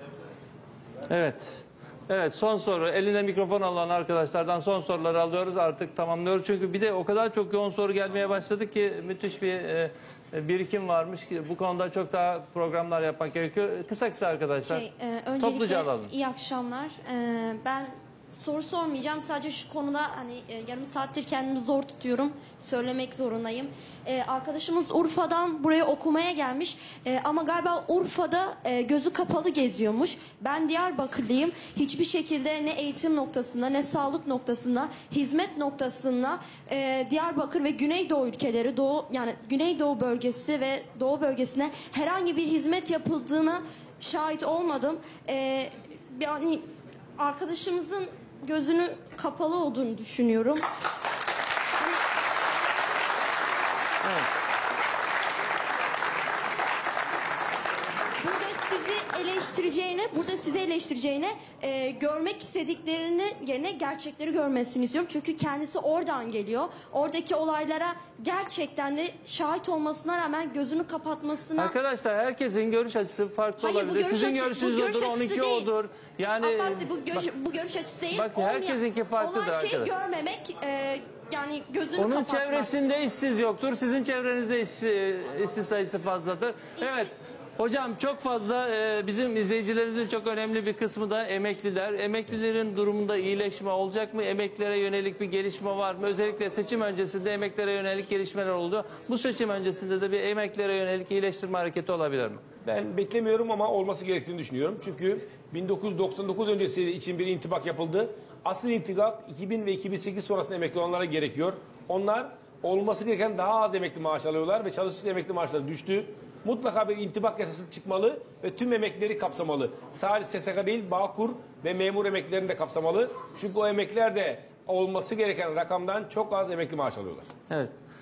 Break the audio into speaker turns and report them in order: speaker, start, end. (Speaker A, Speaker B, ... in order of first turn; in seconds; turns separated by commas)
Speaker A: 1.1-14.8, Speaker B: 14.6-50.6, Speaker A: 15.4-16.1, Speaker B: 58.2-71.7, Speaker A: 71.6-77.3, Speaker B: 73.6-75.7, Speaker B: 76.4-82.7, Speaker A: 78.1-79.9, Speaker A: 82.0-102.4, Speaker B: 86.8-87.1, Speaker C: 102.6-127.3